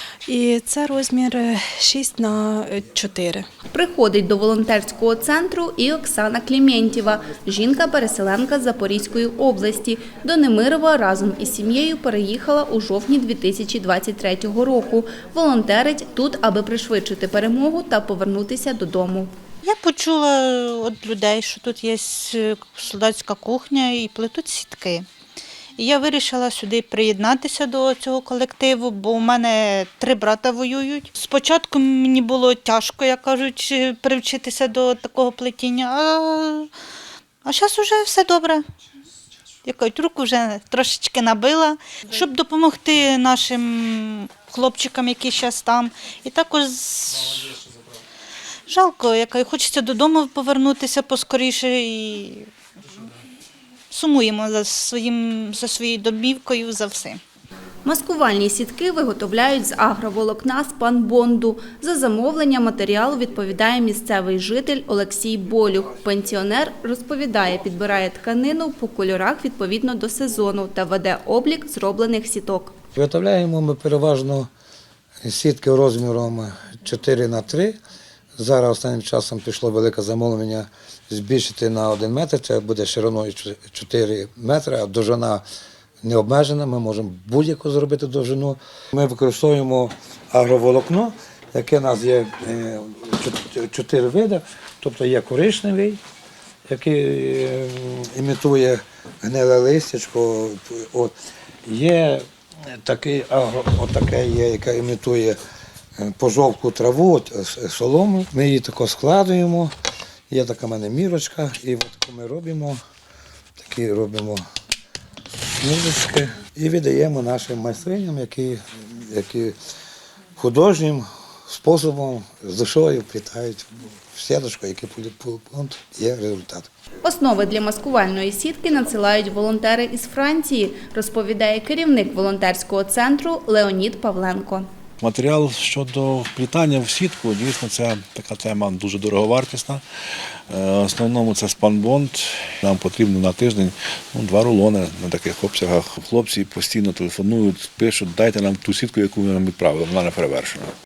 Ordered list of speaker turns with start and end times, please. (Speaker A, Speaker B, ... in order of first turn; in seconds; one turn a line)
Speaker A: 0.3-3.5
Speaker B: 3.7-19.3
Speaker C: 19.6-25.1
Speaker C: 25.8-36.7
Speaker C: 37.5-38.7
Speaker C: 39.6-47.6
Speaker C: 48.7-52.5
Speaker C: 53.9-57.2
Speaker B: 57.9-72.7
Speaker D: 73.0-74.5
Speaker D: 75.2-77.8
Speaker D: 78.4-85.4
Speaker D: 86.0-96.0
Speaker D: 96.7-101.1
Speaker D: 101.7-105.4
Speaker D: 106.0-109.7
Speaker D: 110.3-112.8
Speaker D: 113.6-114.4
Speaker D: 115.6-119.6
Speaker D: 120.4-126.7
Speaker B: 127.0-134.7
Speaker E: 135.0-139.8
Speaker E: 140.5-150.7